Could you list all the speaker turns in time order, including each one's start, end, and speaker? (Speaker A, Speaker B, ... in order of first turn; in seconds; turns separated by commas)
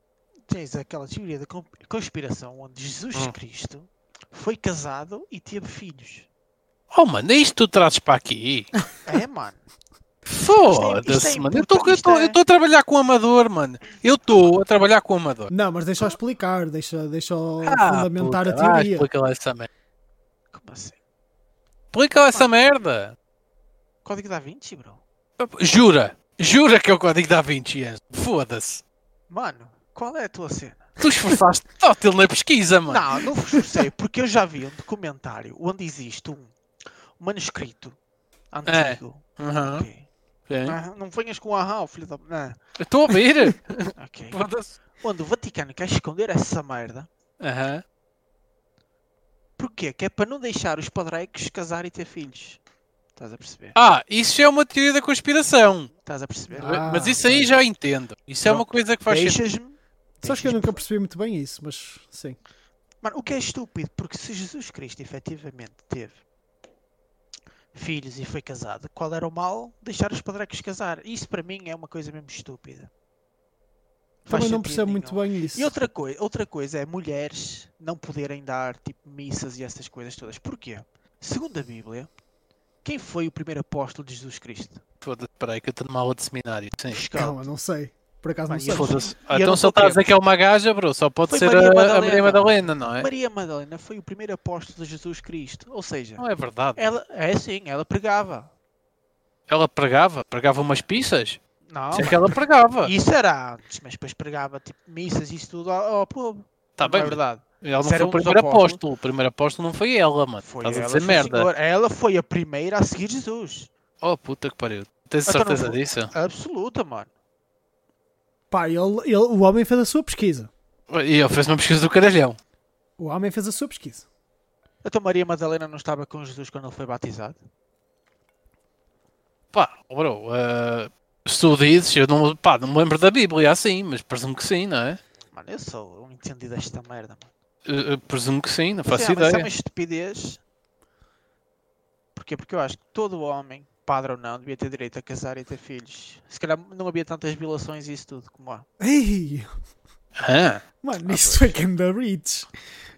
Speaker A: 0.5-6.3, Speaker B: 6.9-8.7, Speaker A: 9.0-9.6, Speaker B: 10.3-15.5, Speaker A: 10.6-12.4, Speaker C: 15.5-19.1, Speaker B: 17.6-19.7, Speaker A: 20.5-21.0, Speaker B: 21.9-23.1, Speaker A: 24.0-25.0, Speaker B: 25.4-28.8, Speaker A: 29.3-30.9, Speaker B: 31.0-33.2, Speaker A: 32.9-36.5, Speaker A: 37.2-38.0, Speaker A: 38.5-40.0, Speaker B: 38.6-39.9, Speaker B: 40.5-40.8, Speaker A: 40.6-42.6, Speaker B: 42.8-44.7, Speaker A: 44.0-44.4, Speaker A: 45.0-47.1, Speaker B: 47.4-47.8, Speaker A: 49.6-52.6, Speaker A: 53.2-53.8, Speaker B: 53.7-55.9, Speaker A: 56.0-56.8, Speaker C: 56.5-57.5, Speaker B: 56.6-59.4, Speaker A: 58.4-60.8, Speaker C: 60.2-62.4, Speaker A: 63.0-66.2, Speaker A: 67.7-72.9, Speaker A: 74.2-82.1, Speaker C: 74.3-75.7, Speaker A: 82.8-84.8, Speaker B: 85.0-87.0, Speaker A: 86.9-87.4, Speaker C: 87.1-89.0, Speaker A: 88.5-90.0, Speaker B: 88.7-93.1, Speaker A: 91.3-96.2, Speaker B: 96.2-96.8, Speaker A: 96.8-98.5, Speaker B: 99.5-101.4, Speaker A: 101.7-108.8, Speaker B: 101.9-102.9, Speaker B: 106.8-111.5, Speaker A: 110.4-113.7, Speaker B: 114.0-116.1, Speaker A: 115.2-117.1, Speaker C: 118.5-120.5, Speaker B: 120.9-122.4, Speaker C: 123.0-124.0, Speaker A: 124.8-127.4, Speaker B: 129.5-135.0, Speaker A: 135.3-137.3, Speaker B: 137.7-139.5, Speaker A: 138.9-140.4, Speaker A: 142.1-148.7, Speaker C: 148.8-149.5, Speaker B: 150.2-150.6, Speaker C: 150.8-152.5, Speaker A: 151.1-151.6